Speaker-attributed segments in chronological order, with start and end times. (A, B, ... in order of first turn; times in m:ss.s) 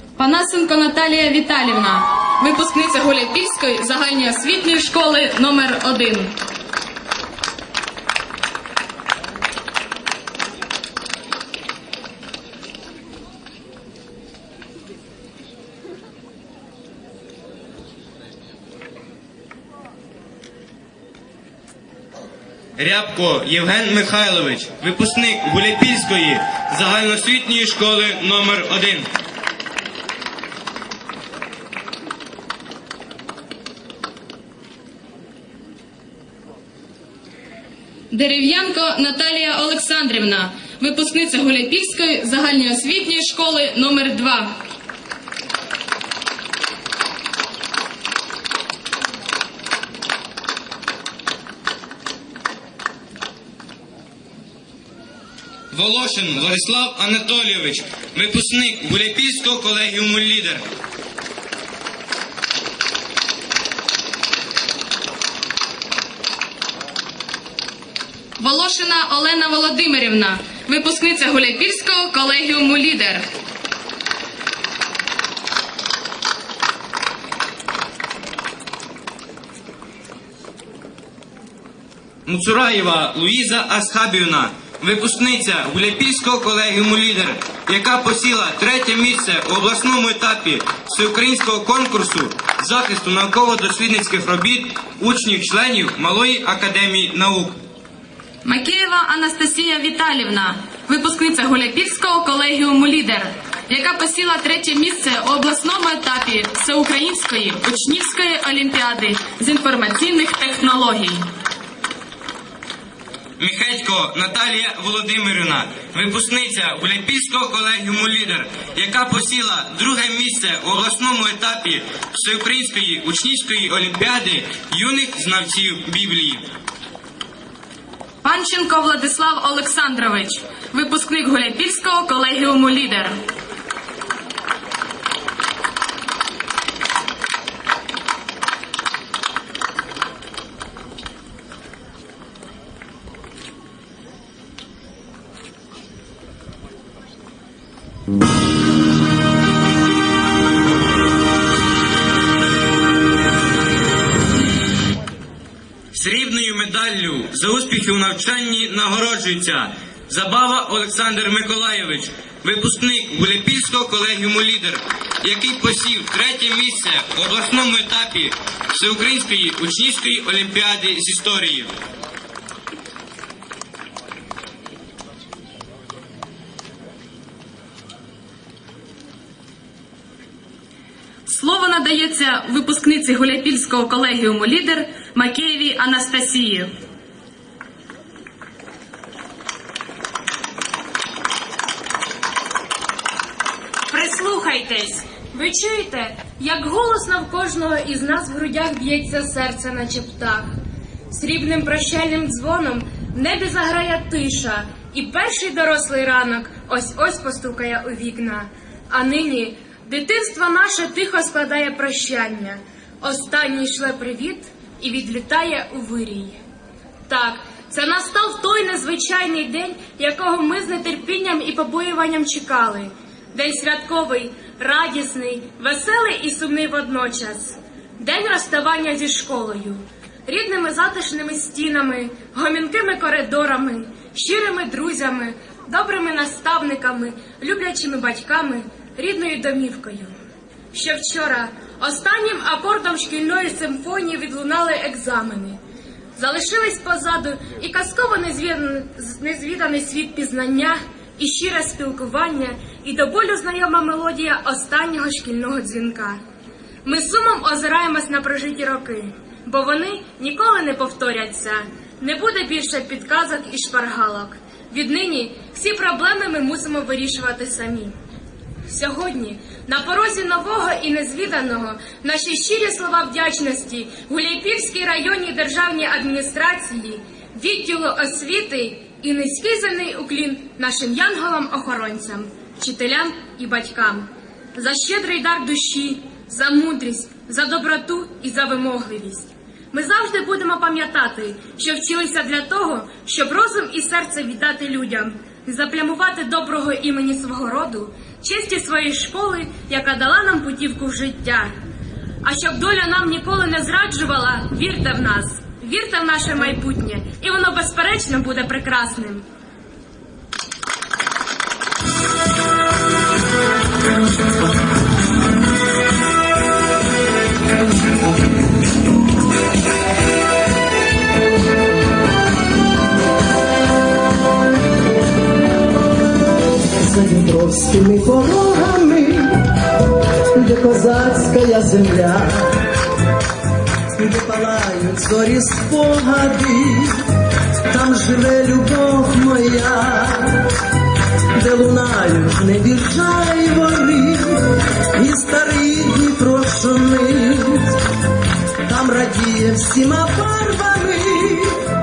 0:00.2-0:06.3 A
0:22.8-0:29.1 B
0:38.1-0:44.6 A
0:55.7-1:00.6 B
1:08.4-1:13.3 A
1:22.3-1:37.6 B
1:38.4-1:51.2 A
1:53.4-2:06.4 B
2:08.2-2:13.2 A
2:35.9-2:51.7 B
3:01.3-3:06.7 A
3:13.9-3:20.5 C
3:21.1-3:36.4 C
3:37.1-4:00.1 C
4:00.7-4:05.6 C
4:06.2-4:16.2 C
4:16.8-4:27.9 C
4:28.7-5:01.5 C
5:02.2-5:09.2 C
5:26.8-5:29.5 D
5:30.4-5:32.6 D
5:34.0-5:37.0 D
5:37.7-5:40.4 D
5:41.4-5:44.4 D
5:44.9-5:47.8 D
5:48.7-5:51.6 D